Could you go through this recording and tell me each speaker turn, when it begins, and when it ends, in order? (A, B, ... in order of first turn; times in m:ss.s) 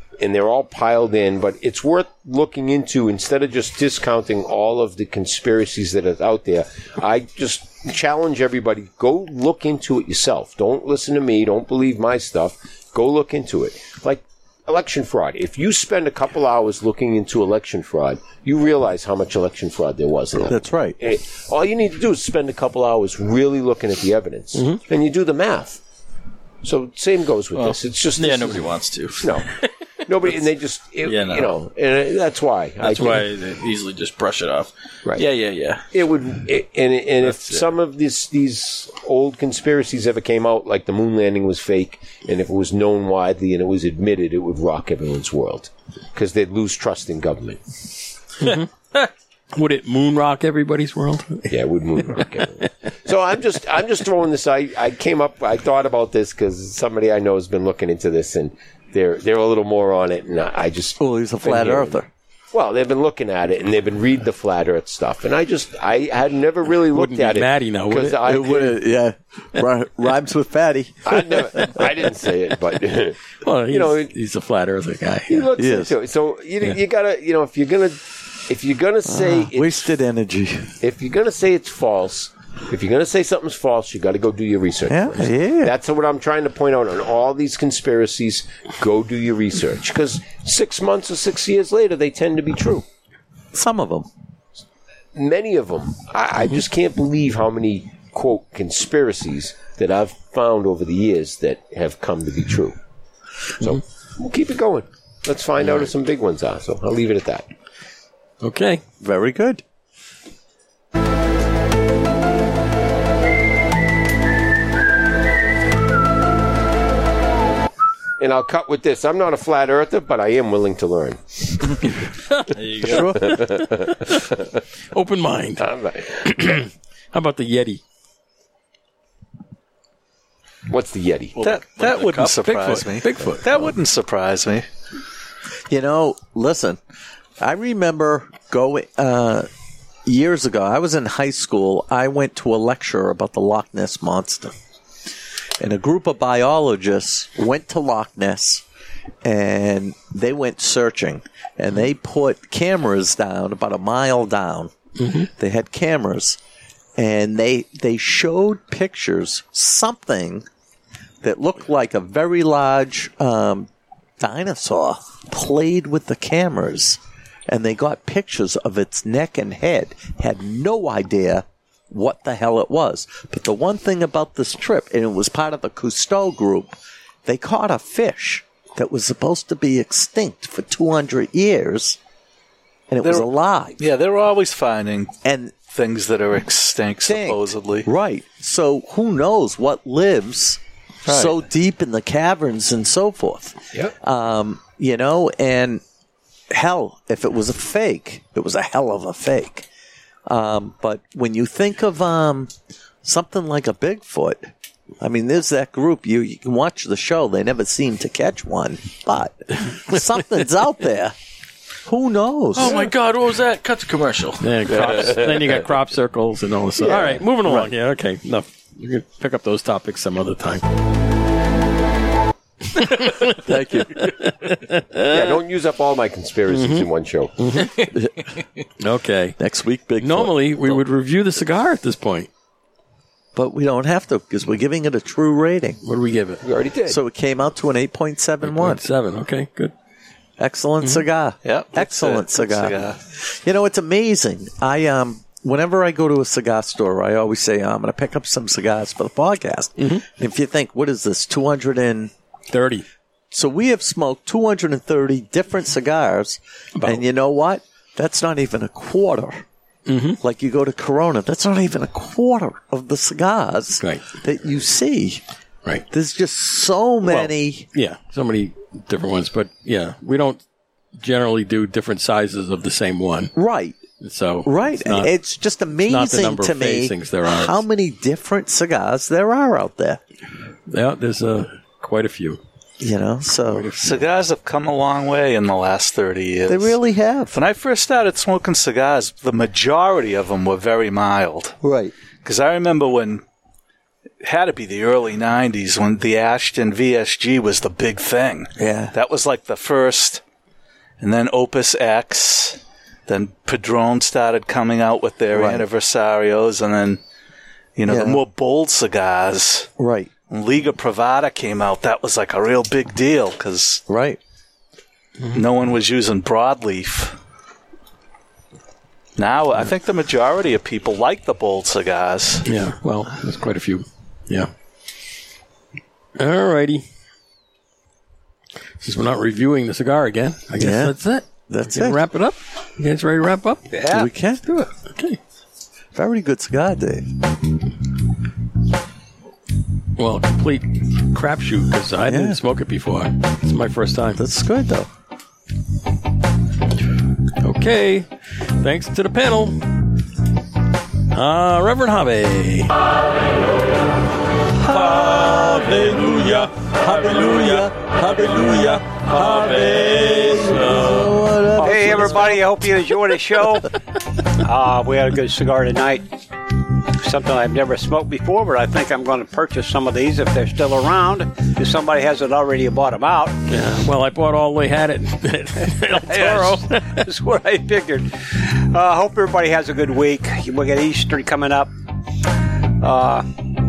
0:00.2-0:25.8 A
0:20.4-0:21.0 B
0:24.5-0:24.8 C
0:26.6-0:28.6 A
0:27.5-0:29.7 D
0:29.2-0:29.5 A
0:30.0-0:33.2 A
0:31.0-0:31.6 D
0:32.8-0:35.9 D
0:35.9-0:47.6 A
0:37.2-0:37.6 D
0:48.4-0:51.5 C
0:51.5-1:02.0 A
1:01.0-1:02.1 B
1:02.5-1:08.8 A
1:06.9-1:08.3 C
1:08.2-1:11.2 B
1:11.1-1:14.1 A
1:13.4-1:15.5 C
1:15.3-1:19.8 A
1:15.6-1:16.0 B
1:19.0-1:20.8 B
1:20.8-1:32.8 A
1:24.9-1:25.8 B
1:33.5-1:34.1 B
1:35.1-1:42.8 A
1:43.6-1:47.5 A
1:48.4-1:48.8 C
1:49.0-1:49.6 B
1:58.2-2:01.9 A
2:02.5-2:03.1 D
2:02.8-2:03.3 B
2:02.9-2:04.6 A
2:03.1-2:04.2 C
2:04.9-2:05.6 C
2:05.6-2:06.4 A
2:06.2-2:07.8 C
2:10.7-2:11.4 A
2:11.4-2:12.2 D
2:11.4-2:14.6 E
2:12.1-2:13.7 C
2:15.7-2:16.8 B
2:17.4-2:19.5 B
2:20.0-2:24.5 B
2:25.6-2:28.6 B
2:29.2-2:36.4 B
2:35.0-2:35.3 C
2:37.0-2:40.4 B
2:41.2-3:02.0 B
3:02.9-3:03.8 B
3:03.0-3:03.3 E
3:03.8-3:05.1 E
3:05.2-3:05.6 B
3:05.7-3:07.9 E
3:07.0-3:15.8 B
3:11.1-3:11.3 E
3:16.5-3:19.7 B
3:20.3-3:22.5 B
3:23.0-3:31.1 B
3:31.8-3:32.8 B
3:32.5-3:34.8 D
3:34.4-3:40.6 C
3:36.9-3:37.2 A
3:36.9-3:37.7 B
3:42.7-3:43.4 C
3:43.4-3:44.1 B
3:43.9-3:45.2 C
3:45.1-3:47.3 A
3:46.5-3:46.8 C
3:47.4-3:47.8 C
3:48.8-3:49.4 C
3:49.4-3:50.5 B
3:50.0-3:52.3 C
3:53.3-3:55.8 B
3:55.8-3:56.4 C
3:56.4-3:57.0 A
3:56.9-3:58.8 B
3:58.4-3:59.7 C
4:00.4-4:12.1 B
4:01.4-4:03.0 E
4:09.8-4:10.0 C
4:12.5-4:12.8 C
4:13.3-4:19.4 B
4:16.8-4:17.0 C
4:19.8-4:20.2 C
4:20.2-4:25.2 B
4:23.8-4:24.1 C
4:25.9-4:27.6 B
4:27.0-4:30.4 C
4:31.0-4:33.3 C
4:33.3-4:33.8 B
4:34.0-4:35.1 C
4:34.4-4:40.0 B
4:35.8-4:37.6 C
4:40.7-4:42.4 C
4:42.8-4:43.9 B
4:43.5-4:44.0 C
4:43.8-4:46.8 E
4:46.5-4:47.3 B
4:47.3-4:51.6 E
4:51.6-4:51.9 B
4:52.2-4:53.2 E
4:54.2-5:00.2 E
4:58.6-4:58.9 B
5:01.0-5:07.0 E
5:05.3-5:05.7 B
5:07.8-5:09.7 E
5:07.9-5:08.2 B
5:09.8-5:10.1 B
5:10.3-5:13.8 E
5:13.9-5:14.2 B
5:15.3-5:17.2 E
5:19.2-5:22.5 E
5:22.4-5:24.5 C
5:26.2-5:26.8 C
5:28.8-5:33.8 C
5:30.6-5:31.0 B
5:31.5-5:32.0 B
5:33.7-5:34.1 F
5:33.9-5:34.4 B
5:34.5-5:35.2 C
5:35.9-5:37.1 B
5:40.0-5:44.2 C
5:42.0-5:42.4 B
5:44.1-5:44.9 B
5:47.4-5:49.6 C
5:51.1-5:52.8 C
5:54.5-6:02.4 B
5:56.0-5:56.4 C
5:59.1-6:01.1 C
6:01.6-6:03.7 F
6:04.3-6:06.1 F
6:07.0-6:13.4 F
6:13.5-6:17.0 C
6:15.8-6:21.7 F
6:22.8-6:23.4 F